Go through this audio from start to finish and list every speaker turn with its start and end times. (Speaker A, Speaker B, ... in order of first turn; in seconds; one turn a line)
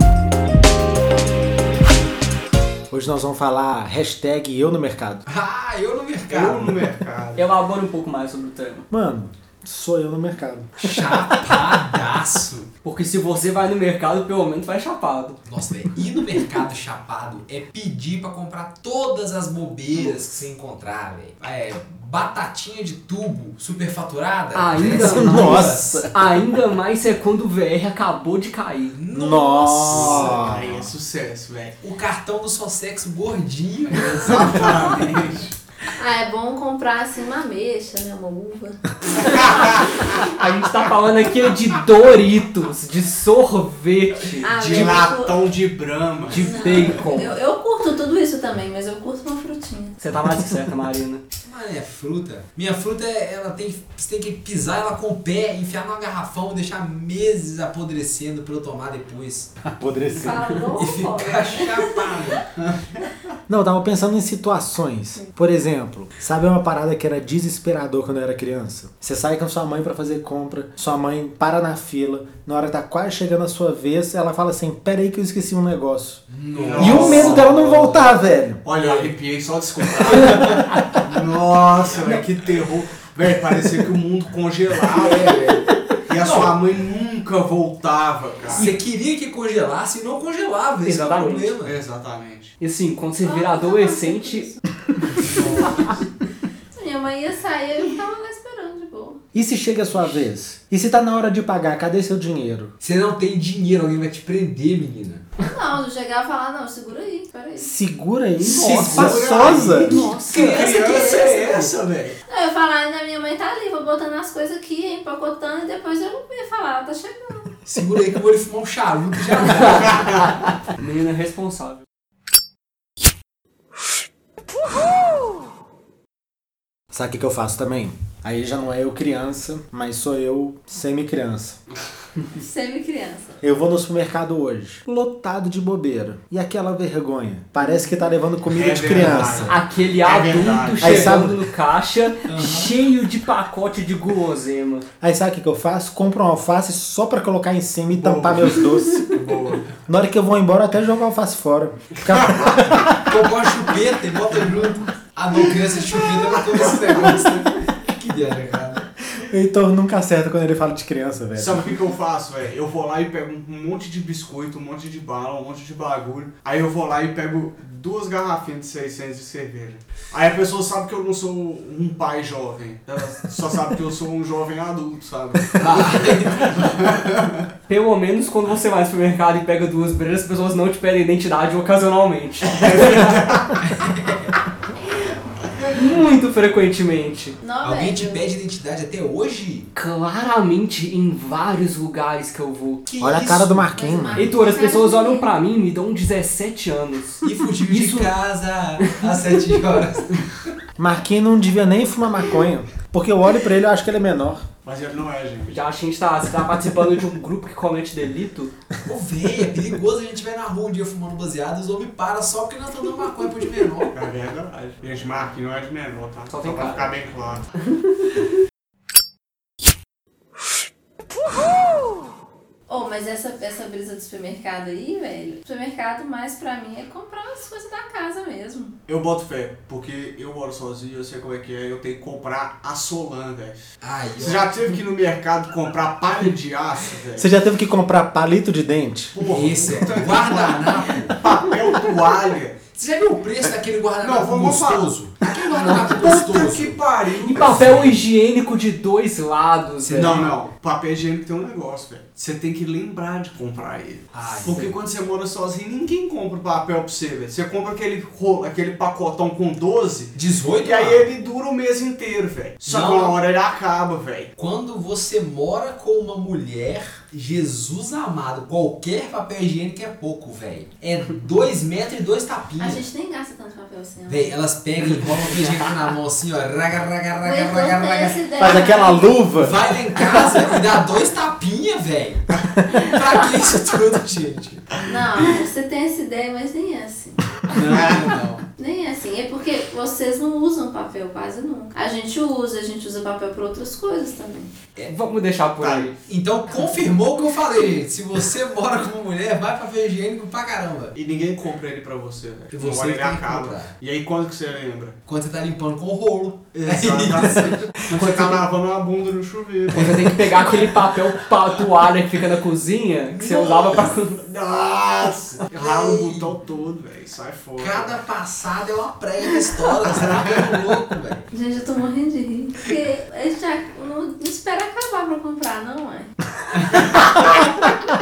Speaker A: 2.9-5.2
Speaker B: 5.3-6.8
Speaker C: 6.3-7.5
Speaker D: 7.4-8.9
Speaker A: 8.9-11.1
Speaker B: 10.8-12.7
Speaker D: 12.8-15.4
Speaker B: 15.5-26.0
Speaker D: 24.5-29.0
Speaker A: 24.8-26.2
Speaker B: 28.9-30.6
Speaker A: 29.1-30.9
Speaker C: 29.9-31.8
Speaker B: 31.8-35.0
Speaker C: 34.0-35.5
Speaker E: 36.0-39.8
Speaker C: 39.2-40.2
Speaker D: 40.3-45.0
Speaker E: 44.4-45.5
Speaker C: 44.4-46.5
Speaker D: 46.3-47.3
Speaker E: 46.4-50.0
Speaker D: 50.0-51.2
Speaker B: 51.4-59.6
Speaker A: 59.6-60.5
Speaker E: 60.2-62.4
Speaker B: 60.7-62.6
Speaker C: 62.8-63.1
Speaker A: 63.5-78.6
Speaker B: 76.3-78.1
Speaker C: 76.5-77.6
Speaker C: 78.7-85.4
Speaker B: 78.8-79.1
Speaker D: 80.2-81.0
Speaker B: 84.9-86.5
Speaker C: 86.1-88.7
Speaker B: 88.5-91.8
Speaker D: 90.8-91.6
Speaker C: 91.6-92.5
Speaker D: 92.6-94.5
Speaker E: 93.2-94.6
Speaker C: 95.3-95.7
Speaker B: 95.3-95.7
Speaker E: 95.4-95.9
Speaker E: 96.7-99.2
Speaker A: 99.3-102.7
Speaker B: 99.8-100.2
Speaker B: 102.8-105.2
Speaker E: 105.4-107.7
Speaker A: 107.6-110.1
Speaker B: 108.4-111.7
Speaker C: 108.6-112.2
Speaker D: 108.7-110.8
Speaker E: 110.4-111.5
Speaker E: 112.3-117.5
Speaker B: 117.7-120.3
Speaker C: 119.6-120.4
Speaker D: 120.7-121.8
Speaker A: 126.9-131.6
Speaker E: 132.3-133.4
Speaker A: 133.4-139.6
Speaker C: 138.5-141.2
Speaker D: 139.3-144.9
Speaker A: 140.8-141.4
Speaker B: 140.8-141.2
Speaker B: 142.2-142.8
Speaker A: 145.0-149.1
Speaker C: 147.9-149.7
Speaker A: 149.9-153.2
Speaker C: 152.1-152.6
Speaker B: 153.1-158.9
Speaker C: 156.6-157.1
Speaker A: 159.2-161.7
Speaker C: 161.3-177.5
Speaker B: 175.6-176.5
Speaker D: 177.7-183.2
Speaker C: 182.4-183.7
Speaker B: 183.7-184.3
Speaker D: 185.7-187.4
Speaker E: 187.4-188.3
Speaker B: 187.6-189.7
Speaker D: 189.8-192.8
Speaker B: 192.9-193.8
Speaker A: 193.0-194.3
Speaker E: 193.7-195.3
Speaker D: 194.2-198.2
Speaker B: 197.2-200.6
Speaker D: 198.8-199.2
Speaker A: 200.8-204.5
Speaker C: 204.6-205.5
Speaker D: 205.5-208.5
Speaker B: 208.8-213.9
Speaker C: 213.9-217.5
Speaker D: 216.3-216.9
Speaker D: 217.7-218.1
Speaker E: 222.7-228.8
Speaker C: 228.9-233.7
Speaker B: 233.8-234.5
Speaker C: 234.2-237.3
Speaker A: 237.2-239.2
Speaker C: 239.1-242.7
Speaker B: 239.3-241.2
Speaker B: 242.7-246.8
Speaker C: 243.4-248.0
Speaker D: 247.1-250.1
Speaker B: 249.8-250.4
Speaker C: 250.0-264.3
Speaker B: 254.1-254.6
Speaker D: 254.4-254.8
Speaker B: 260.1-261.1
Speaker B: 262.7-263.2
Speaker B: 264.4-272.8
Speaker E: 272.6-274.3
Speaker B: 274.1-278.2
Speaker D: 275.0-275.7
Speaker E: 277.2-279.3
Speaker A: 278.4-279.6
Speaker B: 279.4-284.8
Speaker E: 284.9-287.3
Speaker B: 287.5-288.5
Speaker E: 288.6-294.5
Speaker D: 294.9-296.0
Speaker C: 295.6-295.9
Speaker B: 296.1-300.9
Speaker C: 300.9-305.0
Speaker B: 302.5-303.7
Speaker B: 305.1-308.3
Speaker C: 306.5-310.8
Speaker D: 309.7-314.2
Speaker C: 313.4-318.0
Speaker B: 315.5-316.4
Speaker B: 317.6-321.3
Speaker C: 319.8-320.5
Speaker E: 321.3-326.1